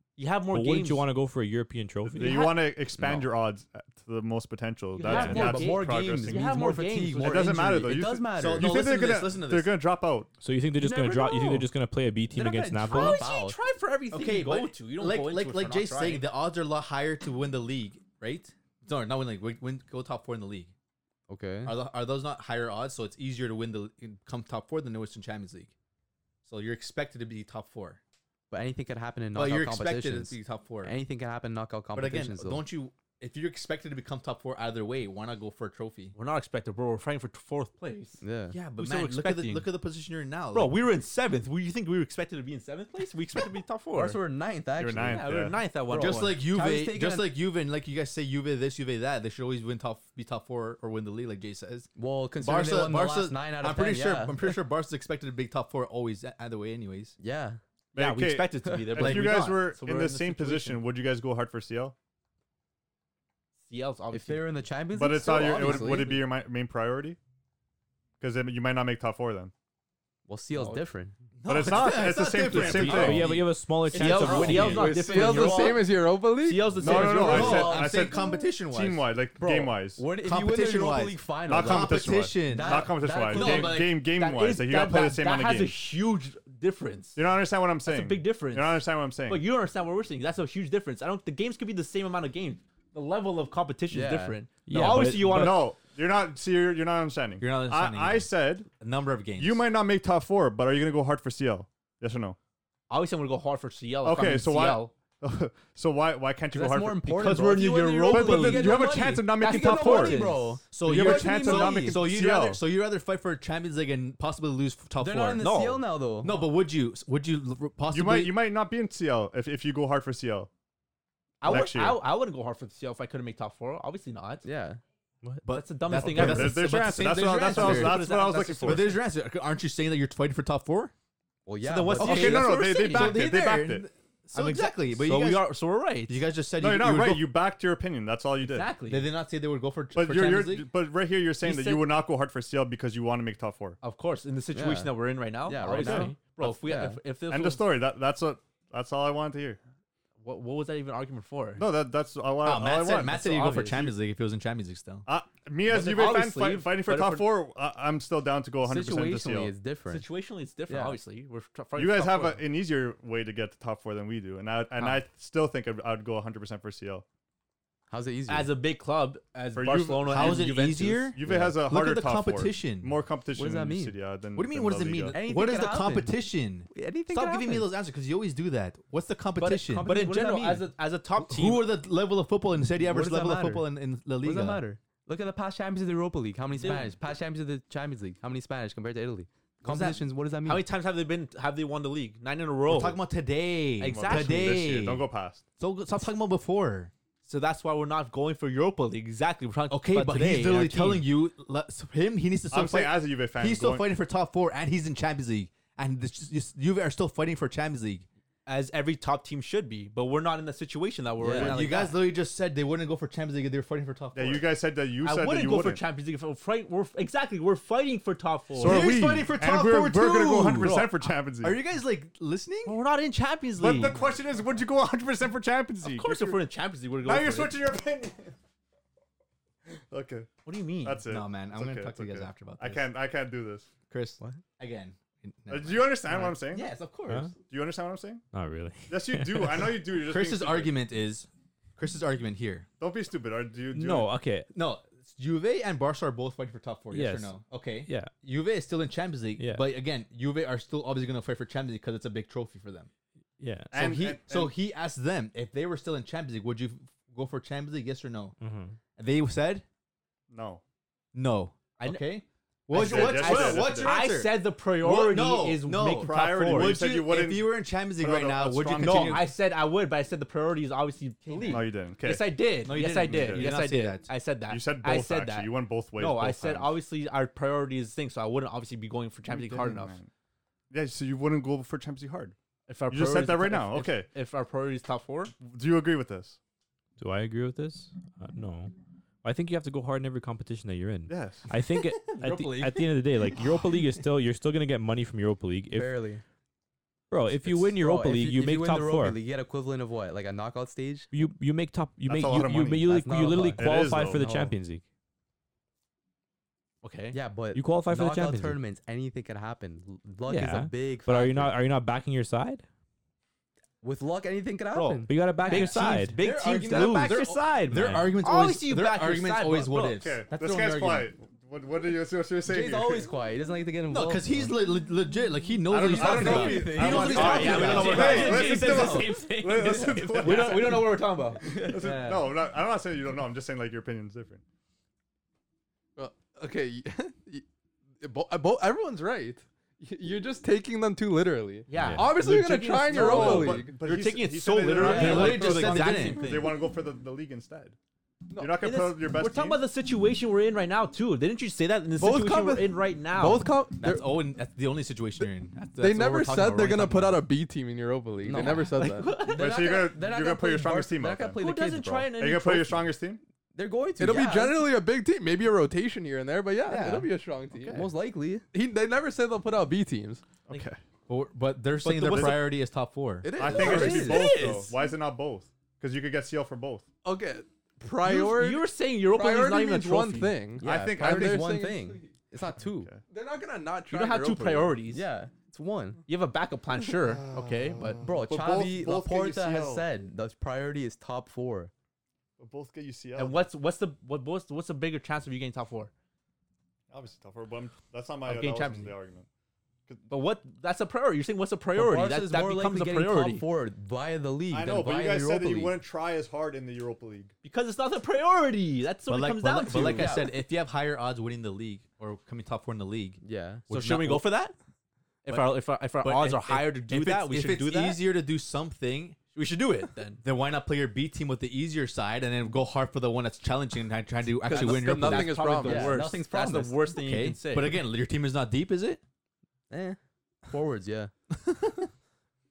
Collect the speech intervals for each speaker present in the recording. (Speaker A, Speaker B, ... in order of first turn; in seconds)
Speaker A: 0.1-1.1, 5.0-7.6, 12.9-16.3, 36.1-38.2, 38.8-39.7, 40.5-44.2, 45.0-46.4, 58.0-60.8, 63.6-64.6, 65.7-66.1, 73.9-77.7, 84.1-87.2, 87.8-95.7, 102.9-104.9, 107.0-110.4, 115.4-115.8, 121.4-124.5, 125.5-126.6, 127.4-129.0, 131.6-133.3, 134.3-136.2, 138.4-139.1, 141.4-141.9, 143.8-147.6, 150.2-151.6, 153.0-153.9, 155.7-157.3, 159.9-162.4, 168.3-171.1, 179.4-181.7, 186.6-186.9, 190.4-193.0, 193.8-194.6, 197.2-201.1, 208.4-212.0, 215.0-218.9, 220.5-221.1, 222.6-223.9, 225.8-227.6, 230.4-231.0, 236.1-237.3, 261.8-262.1, 262.7-266.8, 268.8-280.0, 282.7-285.3, 306.8-307.2, 314.7-320.0, 326.8-332.3, 341.7-346.6, 348.6-353.5, 358.7-359.5, 361.4-362.8, 371.8-372.5, 373.5-374.7, 378.0-380.3, 383.9-385.0, 386.1-388.0, 393.1-395.9, 398.2-398.9, 400.1-403.4, 407.4-410.2, 413.7-414.5, 415.2-418.0, 419.3-420.2, 424.5-427.8
Speaker B: 0.5-3.3, 5.1-5.5, 10.4-13.3, 72.5-75.0, 94.7-95.6, 237.1-237.3, 238.3-239.7, 243.7-244.5, 246.9-248.1, 249.4-249.7, 253.4-253.7, 258.4-258.8, 287.0-288.7, 289.2-296.0, 297.1-299.2, 301.1-304.8, 307.5-308.6, 310.3-312.6, 315.1-316.2, 317.6-318.1, 328.1-330.7, 341.7-342.1
Speaker C: 2.0-6.6, 7.1-10.3, 44.8-45.6, 57.9-61.9, 64.9-67.2, 68.2-69.5, 71.5-73.3, 76.8-80.0, 81.5-85.8, 87.1-89.4, 95.2-98.7, 99.4-102.4, 104.0-110.3, 110.8-112.6, 117.9-120.5, 121.5-122.0, 125.9-129.0, 132.0-133.8, 136.6-138.7, 139.9-143.8, 145.8-146.1, 147.3-149.6, 151.6-153.9, 155.1-159.5, 161.8-167.0, 169.5-170.4, 171.1-175.2, 193.9-195.4, 202.5-203.8, 214.1-215.8, 218.5-221.6, 223.6-226.4, 227.0-228.3, 229.9-233.7, 235.5-236.7, 237.4-238.2, 238.9-240.7, 242.8-244.1, 253.7-254.5, 260.3-260.6, 262.7-264.0, 265.9-269.3, 271.5-273.5, 274.5-276.7, 279.3-280.1, 280.7-282.3, 282.9-284.1, 285.4-286.4, 291.1-291.5, 302.1-303.0, 303.6-304.3, 320.0-323.1, 325.7-334.4, 342.9-347.8, 348.4-349.6, 359.3-361.4, 362.2-363.2, 370.5-370.8, 372.1-372.4, 373.4-376.9, 380.6-381.5, 387.0-389.9, 392.4-393.4, 396.9-399.3, 404.5-407.3
Speaker D: 5.0-8.8, 10.8-11.7, 12.4-13.6, 21.3-21.8, 28.5-32.6, 38.2-38.5, 43.9-45.2, 45.9-47.3, 52.0-54.6, 57.2-57.6, 64.1-66.2, 70.3-71.2, 74.1-75.8, 77.1-78.2, 79.4-83.8, 93.9-94.4, 106.5-112.0, 115.0-116.4, 124.4-124.8, 131.4-132.4, 144.5-147.0, 158.6-160.1, 160.7-161.0, 167.9-168.5, 173.3-173.9, 175.1-176.2, 176.7-177.7, 179.6-180.7, 182.8-183.7, 184.2-190.7, 211.2-211.6, 295.7-296.2, 297.4-301.1, 302.9-304.5, 307.1-311.5, 313.8-317.4, 322.4-324.5, 325.9-329.0, 331.4-331.8, 344.7-345.4, 358.2-362.1, 363.5-364.6, 366.7-367.0, 367.6-368.4, 373.5-374.4, 380.6-382.9, 384.9-386.0, 388.0-391.7, 401.7-405.8, 409.9-410.2, 413.2-413.6, 425.6-426.8, 429.7-431.1
Speaker E: 7.9-9.7, 12.4-12.7, 14.1-20.7, 21.6-25.7, 26.4-28.0, 29.3-31.0, 31.9-36.1, 38.5-40.8, 46.0-57.1, 59.0-59.5, 71.4-73.5, 77.1-79.1, 80.2-84.0, 97.4-99.6, 110.7-115.5, 116.2-118.4, 125.5-128.1, 128.6-130.9, 132.0-135.5, 136.1-137.3, 138.9-140.7, 152.4-155.1, 170.0-172.9, 174.3-179.9, 181.2-184.6, 189.6-190.0, 192.7-195.1, 195.6-196.9, 199.7-208.1, 211.3-214.4, 218.6-220.8, 221.4-222.8, 231.1-232.8, 233.9-236.3, 240.0-242.7, 244.5-252.9, 253.7-258.4, 258.9-259.6, 261.1-269.3, 271.3-271.6, 272.6-274.1, 292.0-293.4, 316.4-321.1, 323.9-329.1, 344.7-346.5, 353.8-357.2, 371.1-373.3, 409.1-414.3, 415.3-419.2, 420.2-425.4, 427.0-429.0, 431.4-431.9
Speaker F: 74.3-77.3, 335.9-337.4, 338.0-343.8, 348.3-348.6, 352.0-354.0, 355.8-359.2, 364.0-367.9, 368.5-370.2, 373.2-374.5, 377.0-382.1, 383.1-384.8, 424.4-426.1